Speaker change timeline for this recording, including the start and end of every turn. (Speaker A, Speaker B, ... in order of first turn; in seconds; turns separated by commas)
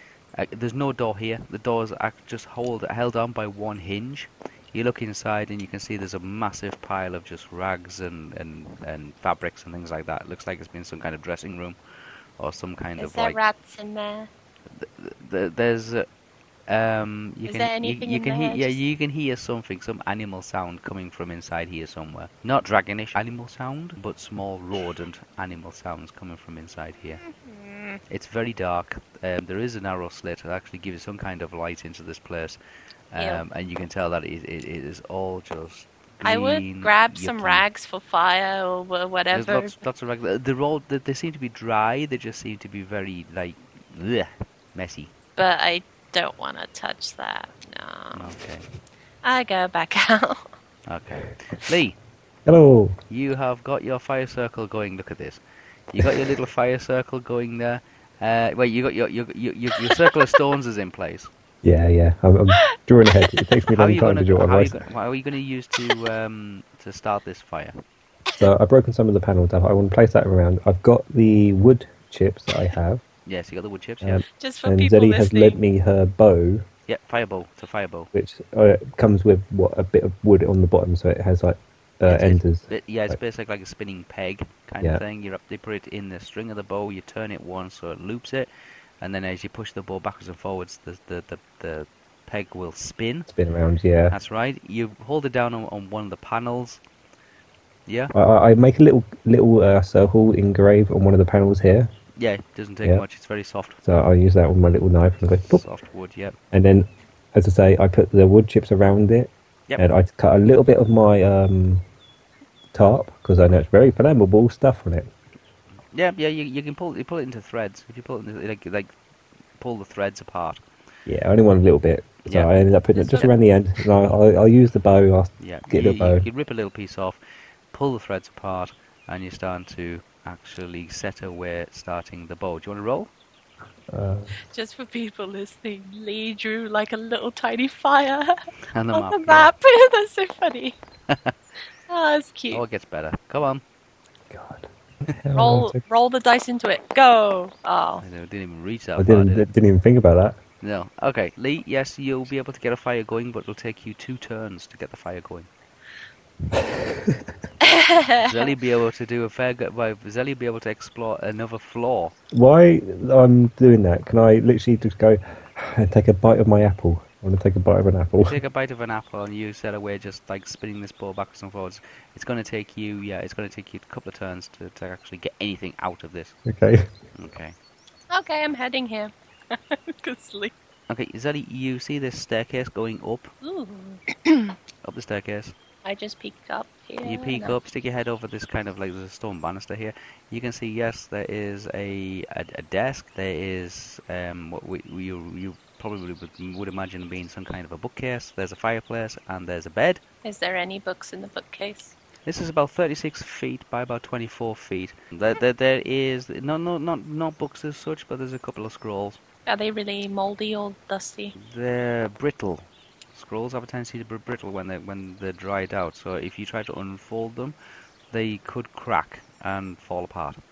Speaker A: 0.3-11.8, Speaker A: 12.4-13.4, Speaker B: 13.0-14.3, Speaker A: 14.7-16.1, Speaker A: 16.7-27.2, Speaker B: 17.5-18.8, Speaker B: 27.2-28.0, Speaker A: 28.1-32.6, Speaker A: 33.1-37.6, Speaker B: 33.2-33.4, Speaker B: 36.2-39.8, Speaker A: 39.3-45.1, Speaker B: 45.4-48.3, Speaker A: 48.1-48.6, Speaker B: 49.2-50.5, Speaker A: 50.9-52.0, Speaker C: 52.5-53.0, Speaker A: 53.1-61.3, Speaker C: 61.6-64.8, Speaker A: 63.7-67.8, Speaker C: 68.4-73.0, Speaker A: 73.2-74.2, Speaker C: 74.0-76.6, Speaker B: 74.4-75.6, Speaker A: 76.9-78.1, Speaker C: 78.1-83.2, Speaker A: 82.1-88.5, Speaker A: 89.0-93.3, Speaker C: 93.3-94.1, Speaker A: 94.1-96.8, Speaker A: 97.9-98.1, Speaker C: 98.1-101.9, Speaker A: 102.2-103.8, Speaker C: 103.8-105.6, Speaker A: 105.4-106.3, Speaker C: 106.5-111.8, Speaker C: 112.7-115.1, Speaker A: 115.9-118.9, Speaker A: 119.6-120.6, Speaker C: 121.0-126.2, Speaker A: 122.2-122.5, Speaker B: 122.9-123.3, Speaker A: 125.4-127.2, Speaker A: 127.7-133.1, Speaker C: 133.9-134.4, Speaker B: 134.5-138.4, Speaker A: 138.7-139.5, Speaker B: 138.9-140.8, Speaker A: 141.1-141.3, Speaker B: 141.9-142.6, Speaker A: 142.5-143.6, Speaker C: 144.3-145.8, Speaker B: 145.3-148.0, Speaker A: 148.0-149.5, Speaker C: 149.0-150.4, Speaker A: 150.6-155.5, Speaker C: 156.5-157.3, Speaker B: 157.6-158.4, Speaker A: 158.2-162.1, Speaker C: 162.3-168.4, Speaker A: 168.2-176.3, Speaker C: 176.4-176.9, Speaker A: 177.2-177.6, Speaker B: 178.1-180.5, Speaker A: 180.9-183.3, Speaker B: 183.4-184.6, Speaker A: 184.8-185.5, Speaker B: 185.8-187.6, Speaker A: 187.0-200.0, Speaker B: 200.2-201.9, Speaker A: 202.2-209.2, Speaker B: 209.4-211.3, Speaker A: 211.3-217.6, Speaker A: 218.1-220.4